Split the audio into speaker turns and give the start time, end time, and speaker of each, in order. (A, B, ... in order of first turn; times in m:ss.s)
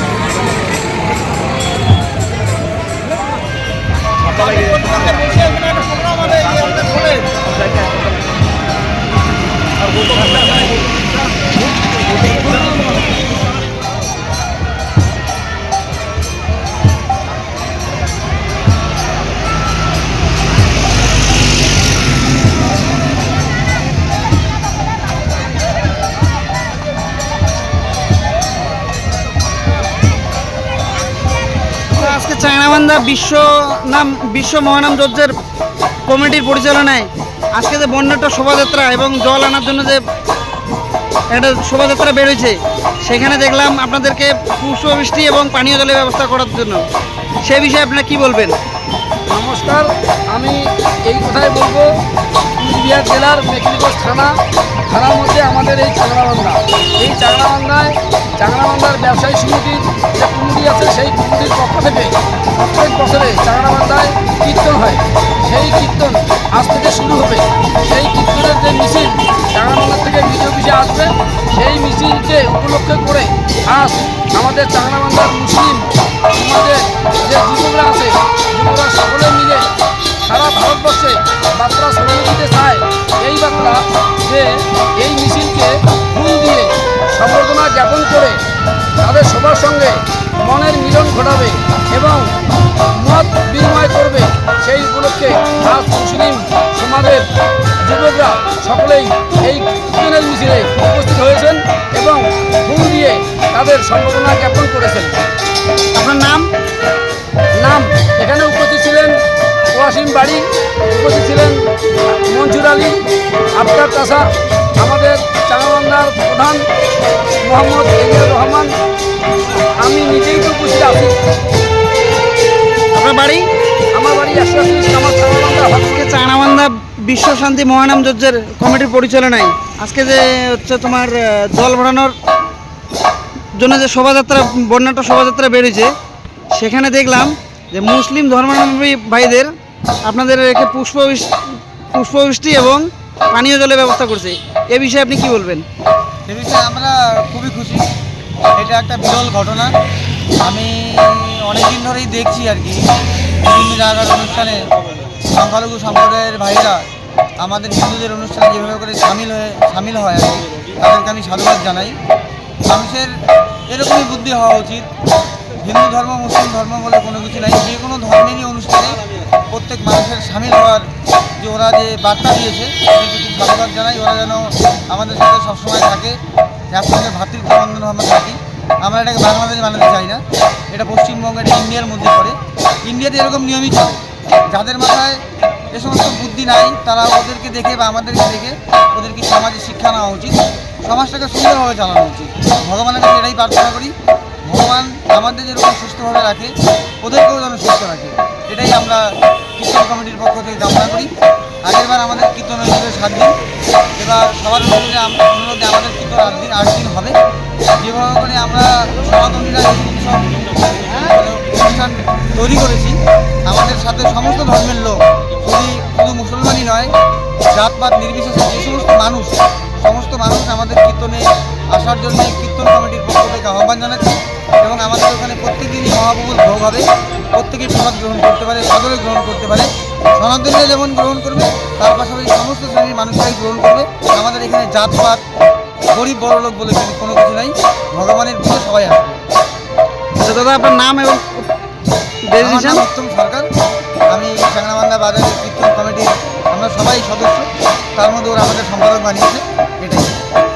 0:05.1-0:05.5 A
0:31.9-0:35.3 A
0:36.1-0:40.0 A
0:41.3-0:46.8 A
0:47.4-0:48.6 A
0:49.3-0:51.9 B
0:52.6-0:54.4 B
0:54.9-1:19.7 B
1:20.2-1:28.4 B
1:29.0-1:32.3 B
1:32.9-1:37.2 B
1:37.8-1:45.2 B
1:45.9-1:46.5 A
1:47.6-1:49.2 B
1:49.7-1:51.6 B
1:52.3-1:53.0 B
1:53.5-1:54.2 B
1:54.8-1:56.6 B
1:57.4-1:58.7 B
1:59.8-2:01.1 B
2:02.9-2:03.5 A
2:03.9-2:06.1 B
2:05.9-2:12.1 A
2:13.5-2:15.9 A
2:16.5-2:19.5 A
2:20.0-2:21.3 A
2:21.9-2:25.6 A
2:26.3-2:27.8 C
2:28.6-2:29.7 C
2:30.4-2:32.8 C
2:33.4-2:34.6 C
2:35.3-2:36.8 C
2:37.4-2:42.0 C
2:42.7-2:43.1 C
2:43.7-2:44.9 C
2:45.6-2:49.0 C
2:49.5-2:50.9 C
2:51.4-2:56.2 C
2:56.7-3:13.9 C
3:14.4-3:19.0 C
3:19.6-3:21.1 C
3:21.6-3:23.4 C
3:24.0-3:27.2 C
3:27.8-3:36.9 C
3:37.5-3:55.2 C
3:55.9-3:59.2 C
4:00.2-4:01.5 A
4:02.3-4:02.8 A
4:02.4-4:03.5 C
4:04.1-4:10.1 C